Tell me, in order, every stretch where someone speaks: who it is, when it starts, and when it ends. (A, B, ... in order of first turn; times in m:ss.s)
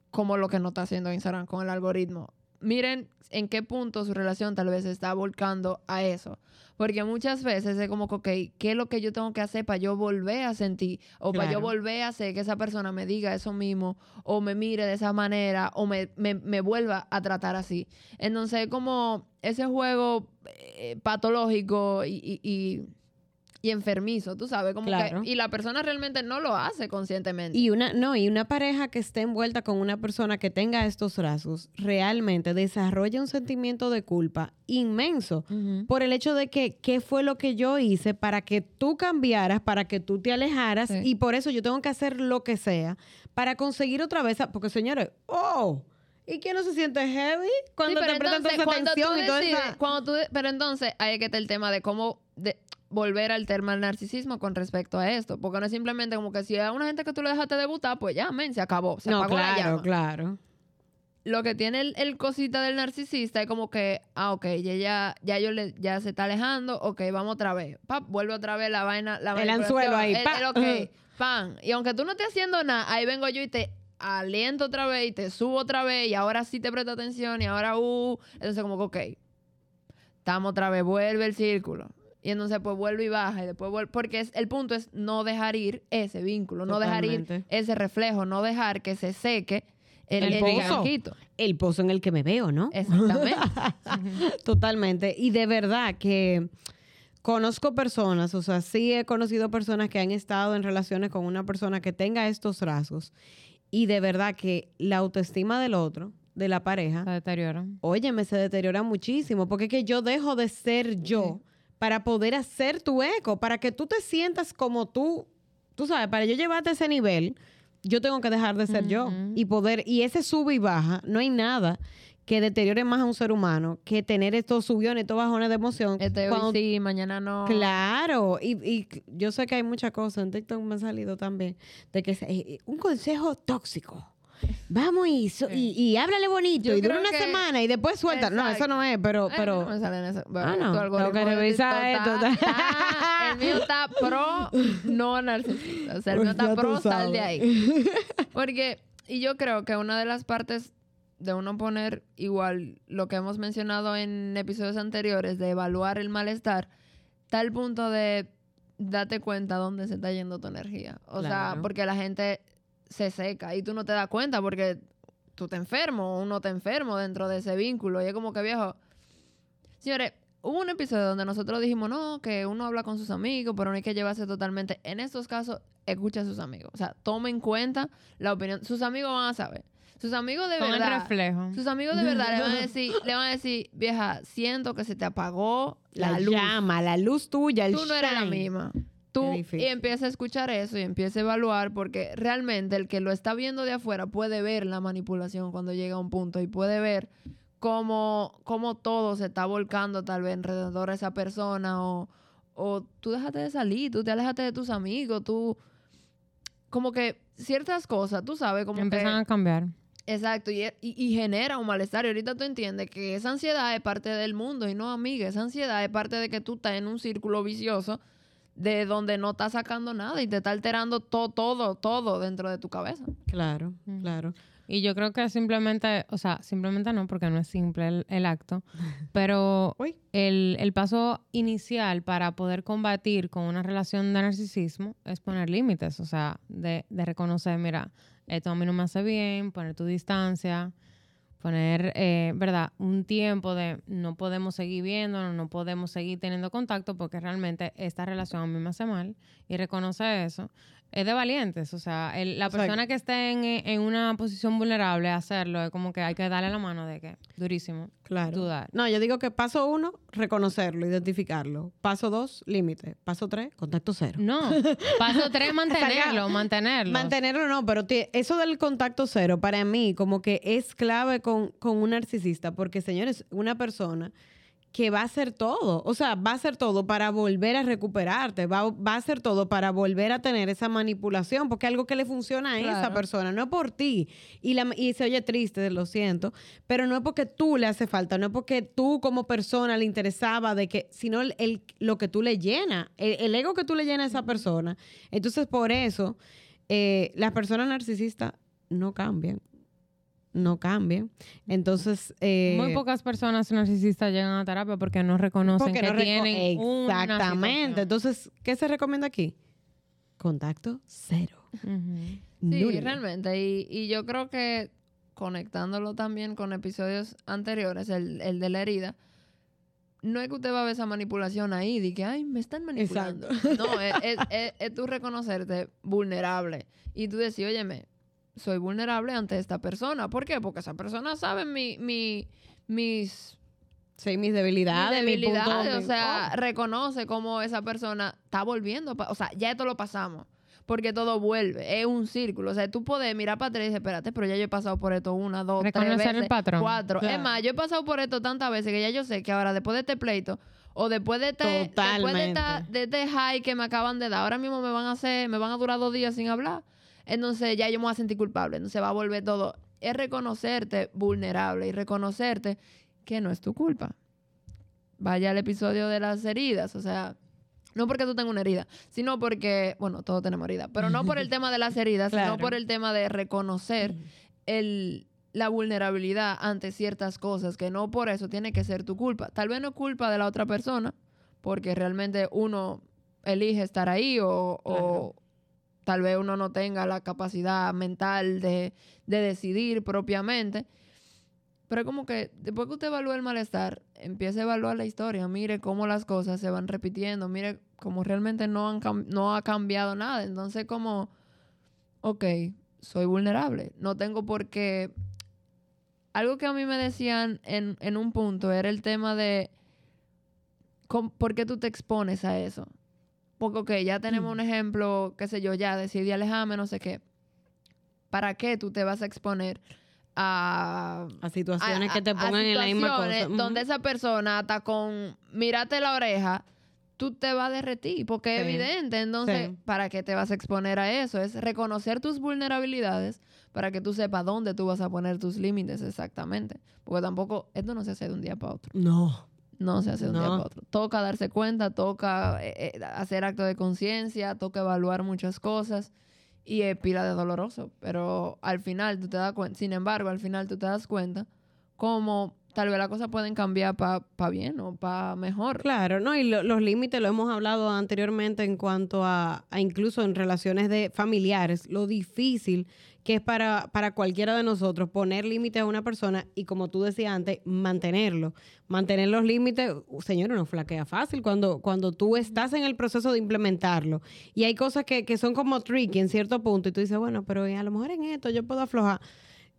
0:00.1-0:22.9 A
0:11.3-0:11.7 B
0:23.6-0:27.6 A
0:24.8-0:25.3 B
0:27.5-0:49.8 B
0:35.5-0:35.9 A
0:47.8-0:59.9 A
0:59.0-1:00.4 B
1:01.2-1:19.2 A
1:09.3-1:10.9 B
1:20.2-1:31.2 A
1:26.7-1:27.4 B
1:30.2-1:36.5 B
1:30.2-1:30.9 C
1:32.7-1:33.5 A
1:33.9-1:34.2 C
1:37.2-1:43.1 B
1:43.7-1:47.1 B
1:47.0-1:47.8 C
1:47.8-2:06.6 B
1:58.7-1:59.4 C
2:06.0-2:07.8 A
2:07.4-2:14.1 B
2:14.7-2:19.7 B
2:16.6-2:17.4 A
2:18.1-2:18.7 A
2:19.3-2:27.4 A
2:20.4-2:23.6 B
2:26.1-2:28.2 B
2:28.3-2:36.7 A
2:37.3-2:44.8 A
2:41.2-2:41.6 B
2:45.4-2:48.8 A
2:49.8-3:06.5 A
3:00.6-3:01.6 C
3:02.0-3:02.7 B
3:05.9-3:08.5 B
3:07.7-3:25.6 A
3:09.2-3:09.6 B
3:26.7-3:29.2 A
3:28.8-3:29.7 C
3:30.1-3:38.0 A
3:38.6-3:43.1 A
3:43.3-3:44.3 B
3:44.7-4:00.7 C
4:01.4-4:18.7 C
4:12.5-4:12.8 B
4:18.1-4:34.1 B
4:24.2-4:27.1 C
4:34.7-4:56.2 B
4:42.6-4:43.0 A
4:56.7-4:59.4 B
5:00.3-5:02.8 B
5:02.4-5:07.8 C
5:05.6-5:09.3 B
5:10.2-5:11.4 B
5:11.6-5:12.2 C
5:12.4-5:13.0 B
5:12.4-5:19.0 A
5:20.0-5:33.4 A
5:22.8-5:24.2 B
5:34.0-5:36.3 B
5:34.7-6:03.9 A
5:45.6-5:46.8 C
5:47.0-5:47.3 B
5:51.4-5:52.6 B
6:05.0-6:07.2 A
6:07.8-6:25.2 A
6:12.1-6:12.5 B
6:24.7-6:25.1 C
6:25.8-6:30.6 A
6:31.7-6:41.1 A
6:42.0-6:44.9 A
6:46.1-6:49.5 A
6:50.9-6:52.7 A
6:53.4-6:57.0 A
6:58.1-6:59.6 A
7:00.2-7:06.4 A
7:01.2-7:03.6 B
7:07.0-7:18.7 A
7:08.4-7:08.7 B
7:09.2-7:09.5 B
7:18.7-7:19.2 B
7:19.6-7:25.9 A
7:20.0-7:20.4 B
7:26.4-7:31.2 A
7:31.8-7:35.6 A
7:35.6-7:59.0 B